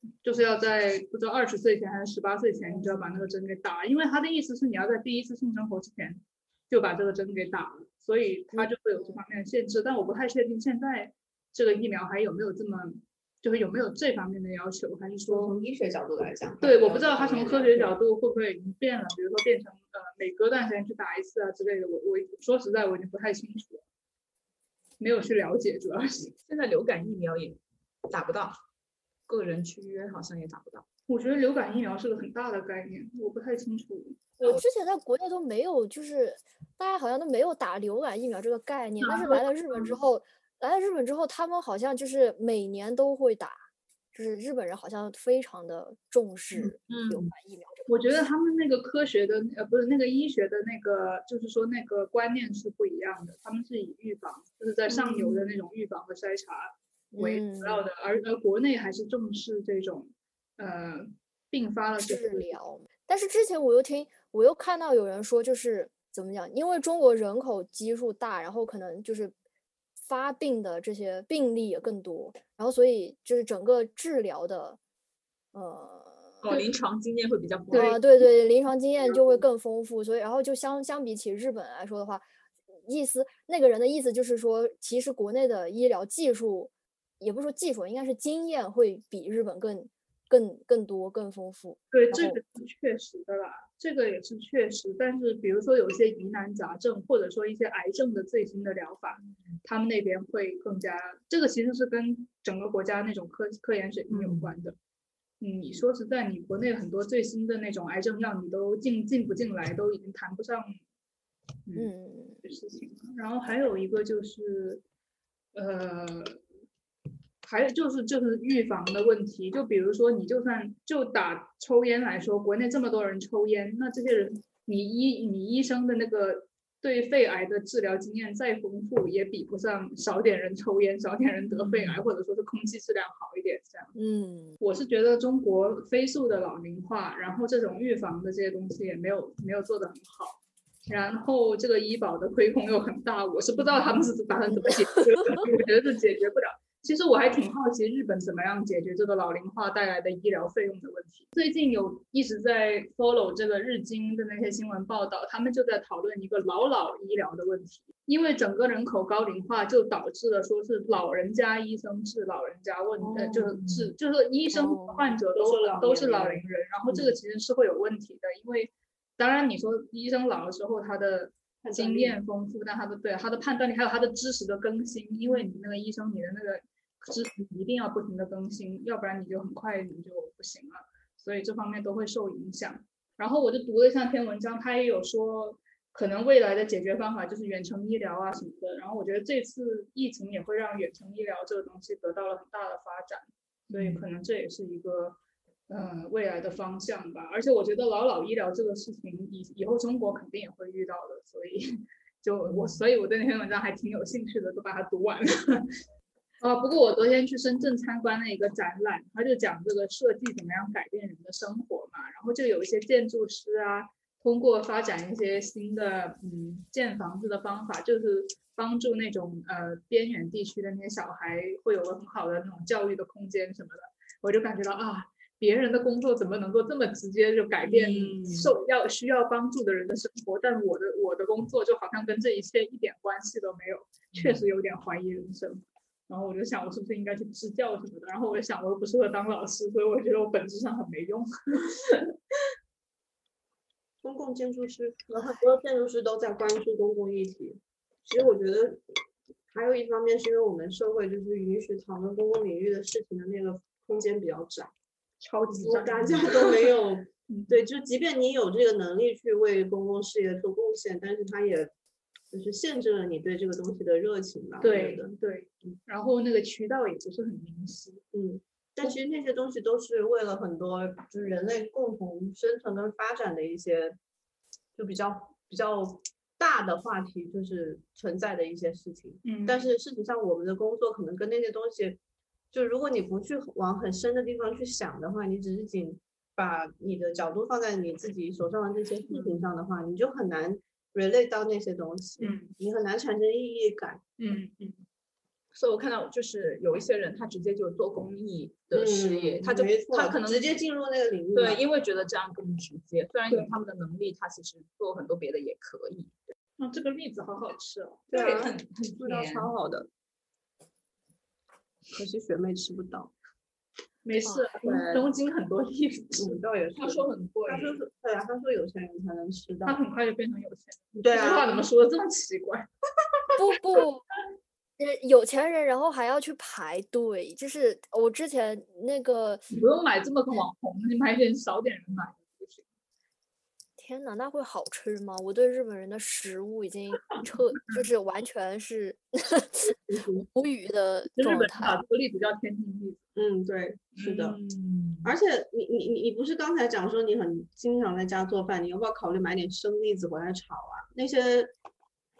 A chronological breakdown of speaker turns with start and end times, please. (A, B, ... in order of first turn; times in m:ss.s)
0:00.2-0:15.5 A
0:15.3-0:18.0 B
0:16.6-0:23.8 A
0:25.0-0:26.3 A
0:26.4-0:28.6 C
0:29.3-0:30.8 C
0:31.1-0:34.4 A
0:34.4-0:43.6 D
0:39.0-0:39.9 C
0:44.1-0:48.2 D
0:46.6-0:47.3 C
0:47.9-1:02.5 A
0:57.1-0:57.8 D
1:02.0-1:09.3 D
1:10.0-1:14.8 D
1:15.5-1:16.3 D
1:16.4-1:18.0 C
1:17.7-1:18.0 A
1:17.7-1:22.2 D
1:19.1-1:19.4 B
1:22.9-1:32.4 D
1:31.9-1:44.8 A
1:44.1-1:44.5 C
1:45.4-1:50.8 A
1:51.7-1:52.4 D
1:52.4-1:54.8 A
1:55.5-1:56.4 A
1:57.4-2:13.9 A
2:11.7-2:11.9 C
2:14.0-2:14.6 D
2:14.6-3:15.2 A
2:24.6-2:25.4 D
2:43.1-2:43.5 B
2:43.6-2:43.9 C
2:44.5-2:45.1 D
2:45.3-2:47.1 B
2:51.6-2:52.2 B
3:13.7-3:14.0 C
3:15.7-3:25.7 A
3:26.4-4:02.1 A
3:47.6-3:48.5 C
4:04.0-4:08.8 B
4:09.5-4:14.7 B
4:15.2-4:17.6 A
4:15.5-4:21.7 B
4:22.3-4:25.1 B
4:24.6-4:28.0 A
4:28.1-4:34.0 B
4:34.8-4:42.0 B
4:39.2-4:39.7 A
4:42.5-4:54.0 B
4:52.2-4:52.5 A
4:54.2-4:54.8 A
4:55.5-5:00.5 C
4:58.7-5:01.6 B
5:01.3-5:06.1 C
5:06.6-5:08.1 A
5:08.1-5:09.9 B
5:08.1-5:09.5 C
5:11.9-5:13.1 B
5:14.0-5:16.4 A
5:14.2-5:14.5 D
5:14.6-5:15.1 B
5:16.2-5:19.8 B
5:16.7-5:17.8 C
5:19.6-5:22.7 A
5:20.9-5:21.5 B
5:23.3-5:24.0 D
5:24.8-5:29.4 D
5:29.5-5:32.6 A
5:33.8-5:41.8 D
5:39.7-5:40.2 B
5:41.2-5:43.0 A
5:43.2-5:44.4 B
5:44.0-5:45.1 C
5:45.0-5:51.5 B